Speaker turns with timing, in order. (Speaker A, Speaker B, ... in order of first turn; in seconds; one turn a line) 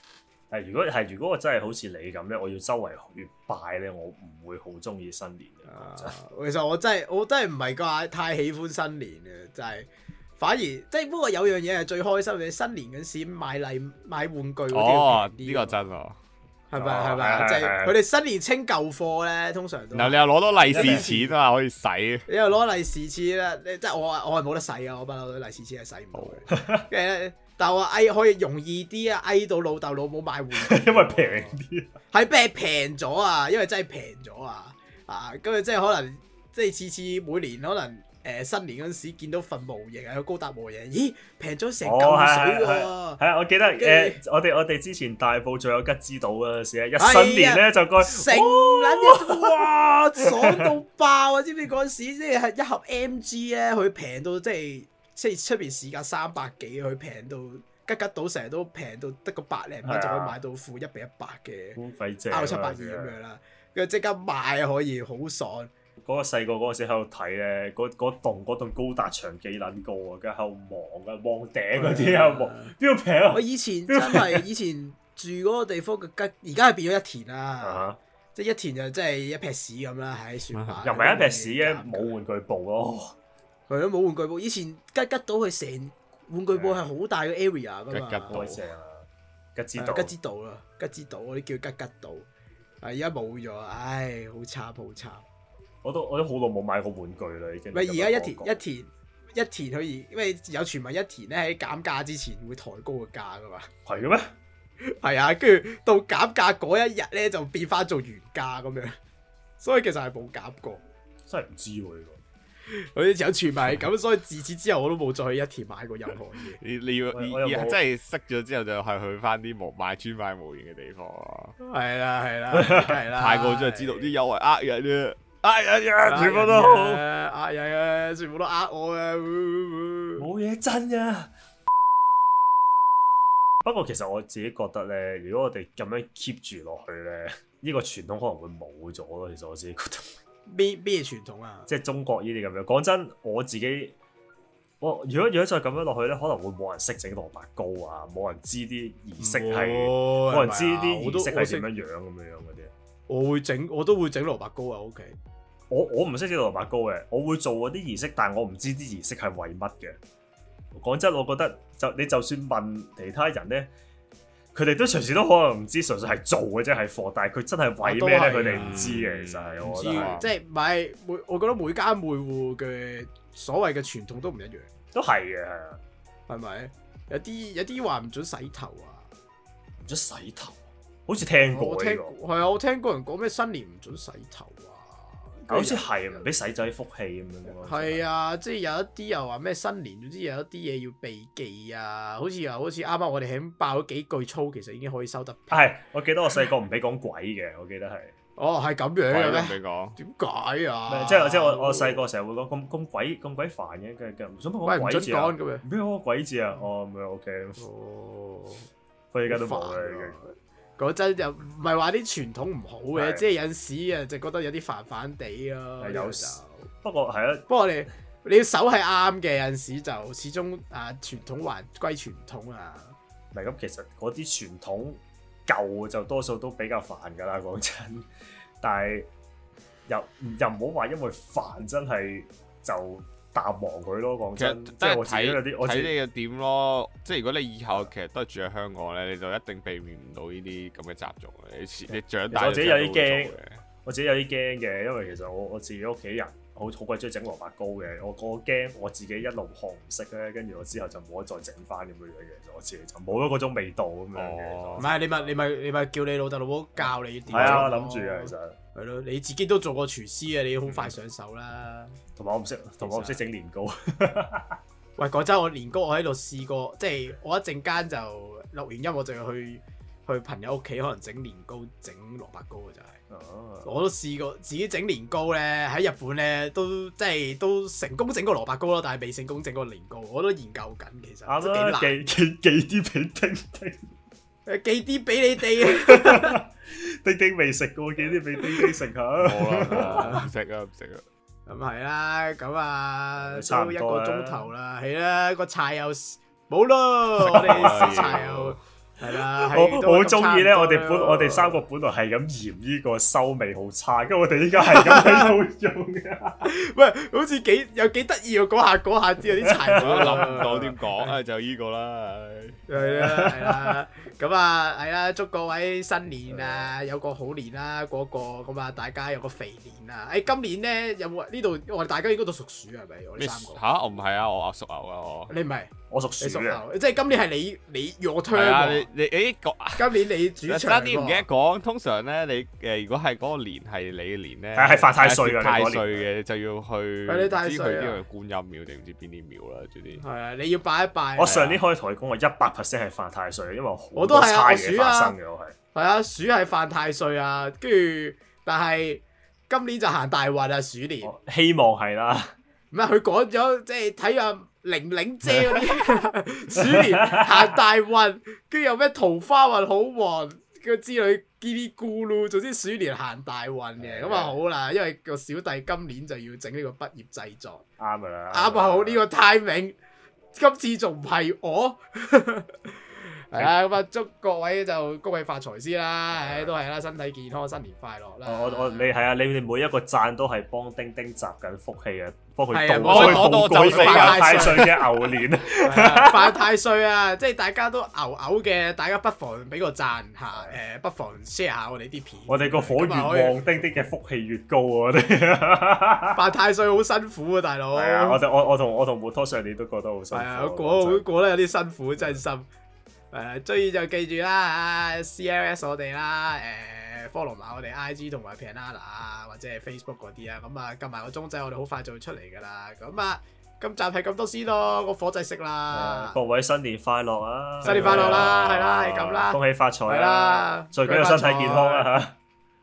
Speaker A: 0.5-6.2
Speaker B: 5.7-15.8
Speaker C: 14.7-16.2
Speaker B: 16.7-21.4
Speaker A: 16.7-18.0
Speaker C: 19.9-22.3
Speaker A: 20.7-21.1
Speaker B: 22.3-31.6
Speaker C: 26.1-26.4
Speaker A: 26.5-26.9
Speaker A: 30.6-31.9
Speaker B: 32.1-43.2
Speaker A: 41.8-49.6
Speaker B: 43.8-44.2
Speaker B: 47.0-61.8
Speaker A: 50.2-50.8
Speaker A: 59.8-60.4
Speaker A: 61.8-63.1
Speaker B: 62.3-65.7
Speaker A: 66.0-74.4
Speaker B: 71.8-72.7
Speaker B: 73.3-82.2
Speaker A: 77.6-78.0
Speaker C: 80.5-80.8
Speaker A: 80.8-83.2
Speaker B: 83.7-88.4
Speaker A: 86.5-86.9
Speaker C: 87.9-88.6
Speaker A: 88.3-90.1
Speaker B: 89.8-92.3
Speaker B: 92.8-95.2
Speaker A: 95.8-98.6
Speaker B: 97.7-103.7
Speaker A: 103.9-104.3
Speaker B: 104.8-109.0
Speaker B: 109.6-110.8
Speaker A: 111.3-112.2
Speaker B: 112.7-116.6
Speaker C: 116.6-121.5
Speaker A: 117.1-117.8
Speaker B: 121.6-124.1
Speaker A: 122.5-122.9
Speaker C: 123.2-127.0
Speaker B: 126.0-130.2
Speaker A: 130.2-131.3
Speaker A: 133.6-140.2
Speaker B: 140.5-141.7
Speaker A: 141.7-144.0
Speaker A: 144.8-152.7
Speaker B: 149.2-151.7
Speaker B: 153.1-155.2
Speaker A: 155.7-160.0
Speaker A: 160.8-163.7
Speaker A: 164.5-170.2
Speaker B: 167.8-169.0
Speaker C: 168.5-170.3
Speaker B: 169.7-174.7
Speaker A: 174.9-175.8
Speaker B: 176.3-179.1
Speaker A: 179.8-182.2
Speaker B: 181.5-185.9
Speaker A: 185.5-188.0
Speaker B: 187.6-195.7
Speaker A: 195.5-198.1
Speaker B: 198.4-202.1
Speaker C: 199.1-200.0
Speaker A: 200.9-207.6
Speaker B: 204.7-205.7
Speaker B: 207.6-208.7
Speaker A: 209.1-210.2
Speaker B: 209.3-216.7
Speaker A: 212.9-213.2
Speaker A: 215.8-217.5
Speaker B: 217.5-223.0
Speaker A: 223.3-228.1
Speaker A: 228.6-229.1
Speaker A: 229.9-235.9
Speaker C: 234.4-243.6
Speaker A: 242.3-255.3
Speaker C: 254.2-254.9
Speaker B: 254.8-262.0
Speaker A: 256.8-258.6
Speaker A: 260.7-260.9
Speaker A: 262.2-264.6
Speaker B: 262.8-263.2
Speaker B: 265.0-273.0
Speaker A: 273.1-273.7
Speaker B: 273.6-282.0
Speaker A: 281.3-283.9
Speaker B: 284.5-286.4
Speaker A: 285.7-290.1
Speaker B: 288.4-288.8
Speaker C: 289.2-291.0
Speaker B: 289.7-290.3
Speaker B: 291.5-301.6
Speaker A: 293.2-294.5
Speaker A: 297.2-298.2
Speaker C: 297.2-298.6
Speaker A: 299.3-306.5
Speaker B: 304.6-305.3
Speaker B: 306.4-311.2
Speaker A: 309.4-310.6
Speaker C: 309.8-312.6
Speaker B: 312.7-323.6
Speaker A: 312.8-313.8
Speaker A: 316.3-316.7
Speaker C: 323.2-325.3
Speaker B: 325.3-328.9
Speaker A: 325.9-326.6
Speaker C: 328.3-340.0
Speaker B: 329.8-331.3
Speaker A: 334.6-336.1
Speaker B: 337.1-338.0
Speaker B: 340.0-341.6
Speaker A: 341.2-345.6
Speaker B: 344.0-345.2
Speaker B: 345.7-351.1
Speaker A: 351.0-352.3
Speaker B: 352.7-367.6
Speaker A: 356.6-357.6
Speaker A: 363.8-364.4
Speaker A: 367.8-369.0
Speaker B: 368.3-369.8
Speaker B: 370.4-378.9
Speaker A: 376.1-376.5
Speaker A: 378.2-386.4
Speaker B: 382.5-384.8
Speaker C: 382.8-384.7
Speaker B: 385.6-393.4
Speaker A: 392.3-396.2
Speaker B: 396.1-398.2
Speaker A: 397.8-401.0
Speaker B: 400.1-402.5
Speaker B: 403.1-416.2
Speaker A: 415.7-422.2
Speaker C: 417.6-418.8
Speaker B: 417.6-421.9